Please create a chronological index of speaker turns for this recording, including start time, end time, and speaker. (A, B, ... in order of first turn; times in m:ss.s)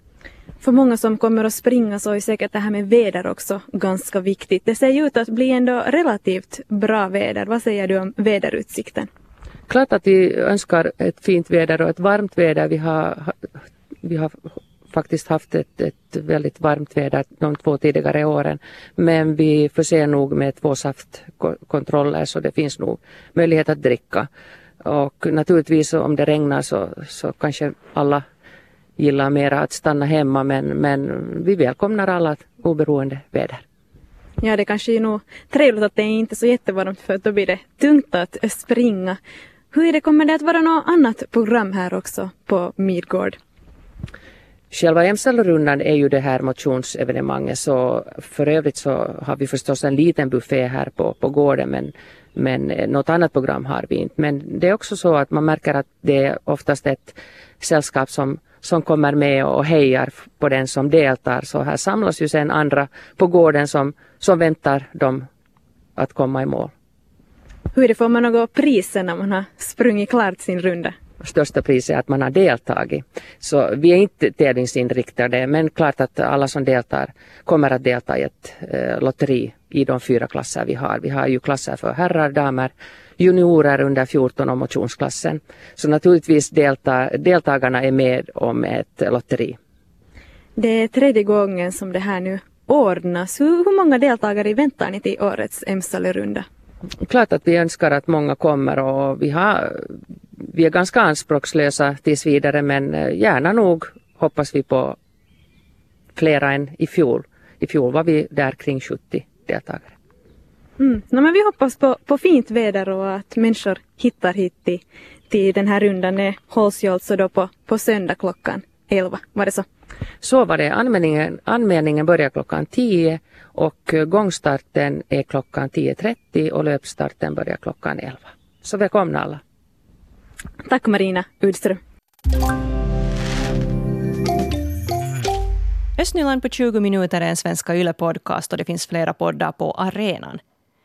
0:00.6-0:09.1 A
0:09.7-0:13.4 B
0:14.0-0:14.4 B
0:14.9-0:24.3 B
0:24.8-0:28.2 B
0:29.0-0:33.6 B
0:34.4-0:39.2 A
0:39.7-0:43.4 A
0:44.7-1:05.3 B
1:06.0-1:06.7 B
1:07.7-1:11.0 A
1:11.2-1:29.6 B
1:30.6-1:36.4 A
1:37.0-1:39.9 B
1:40.5-1:45.0 B
1:46.2-1:49.9 B
1:50.8-1:59.6 A
2:00.2-2:09.4 B
2:10.6-2:11.8 A
2:16.0-2:20.4 C